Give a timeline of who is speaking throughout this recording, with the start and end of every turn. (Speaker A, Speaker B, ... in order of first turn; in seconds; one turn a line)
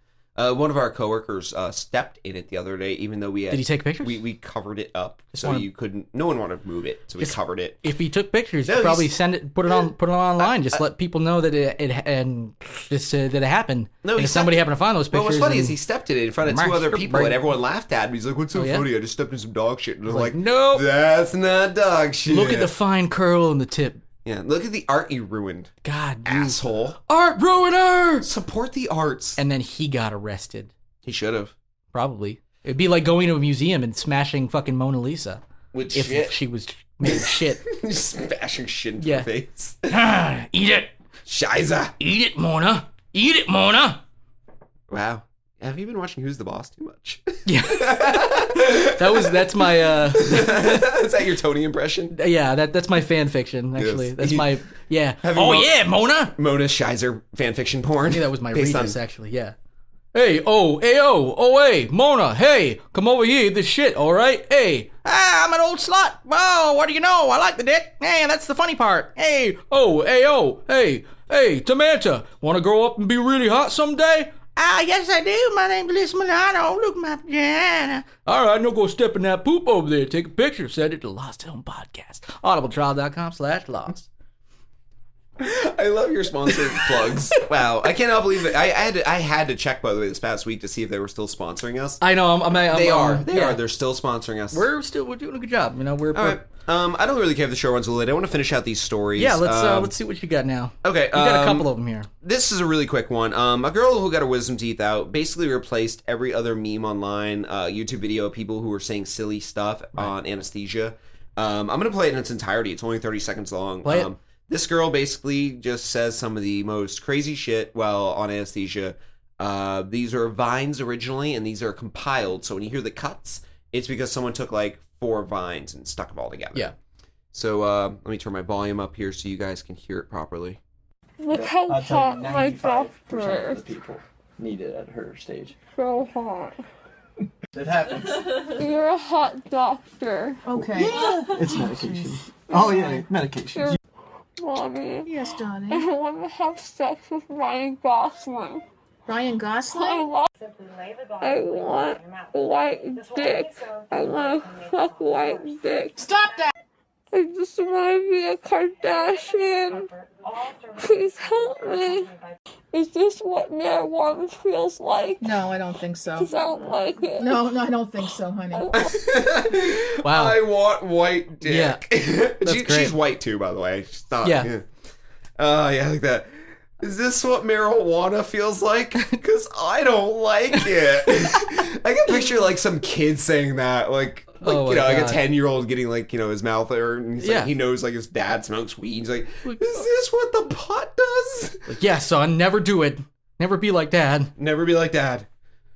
Speaker A: 0.4-7.8
Speaker B: 3.5-4.2
Speaker B: 5.3-5.7
Speaker B: 7.2-15.8
Speaker A: 8.7-9.1
Speaker A: 10.4-10.8
Speaker A: 14.0-22.7
Speaker B: 16.4-17.4
Speaker B: 18.6-18.9
Speaker B: 20.1-20.9
Speaker B: 22.3-24.0
Speaker A: 24.2-25.7
Speaker B: 25.8-28.3
Speaker A: 26.2-27.0
Speaker A: 28.2-29.4
Speaker B: 29.4-30.7
Speaker A: 31.0-31.5
Speaker B: 31.9-35.4
Speaker A: 35.7-36.4
Speaker B: 35.9-37.6
Speaker A: 37.0-40.0
Speaker B: 39.0-39.3
Speaker B: 39.9-40.9
Speaker A: 41.3-42.0
Speaker B: 42.0-44.0
Speaker A: 44.9-52.2
Speaker B: 47.5-50.9
Speaker B: 52.1-56.4
Speaker A: 53.8-54.5
Speaker A: 55.2-55.8
Speaker A: 56.4-59.0
Speaker B: 58.1-59.5
Speaker B: 60.1-84.1
Speaker A: 85.4-92.0
Speaker B: 86.5-87.1
Speaker B: 92.0-93.6
Speaker A: 92.5-94.7
Speaker B: 94.5-96.4
Speaker A: 96.1-99.9
Speaker B: 99.2-102.1
Speaker A: 100.8-101.7
Speaker A: 102.2-126.7
Speaker A: 127.3-130.6
Speaker C: 131.2-133.6
Speaker D: 131.3-135.6
Speaker C: 135.8-136.6
Speaker D: 137.5-138.6
Speaker C: 138.4-140.4
Speaker E: 140.4-142.2
Speaker D: 140.6-143.8
Speaker C: 142.6-142.8
Speaker C: 144.4-148.6
Speaker E: 145.1-145.9
Speaker E: 149.1-150.1
Speaker C: 149.7-150.3
Speaker C: 151.1-156.2
Speaker E: 156.0-156.5
Speaker C: 157.1-159.9
Speaker C: 160.7-162.2
Speaker C: 162.7-165.4
Speaker E: 165.2-166.3
Speaker C: 166.2-167.5
Speaker E: 167.2-168.8
Speaker C: 168.6-168.9
Speaker A: 168.7-174.7
Speaker B: 170.0-170.4
Speaker B: 171.4-171.8
Speaker B: 172.4-173.0
Speaker B: 174.2-174.5
Speaker A: 175.4-191.7
Speaker B: 180.6-181.5
Speaker B: 184.4-185.2
Speaker B: 187.2-187.5
Speaker B: 191.7-194.3
Speaker A: 194.4-195.3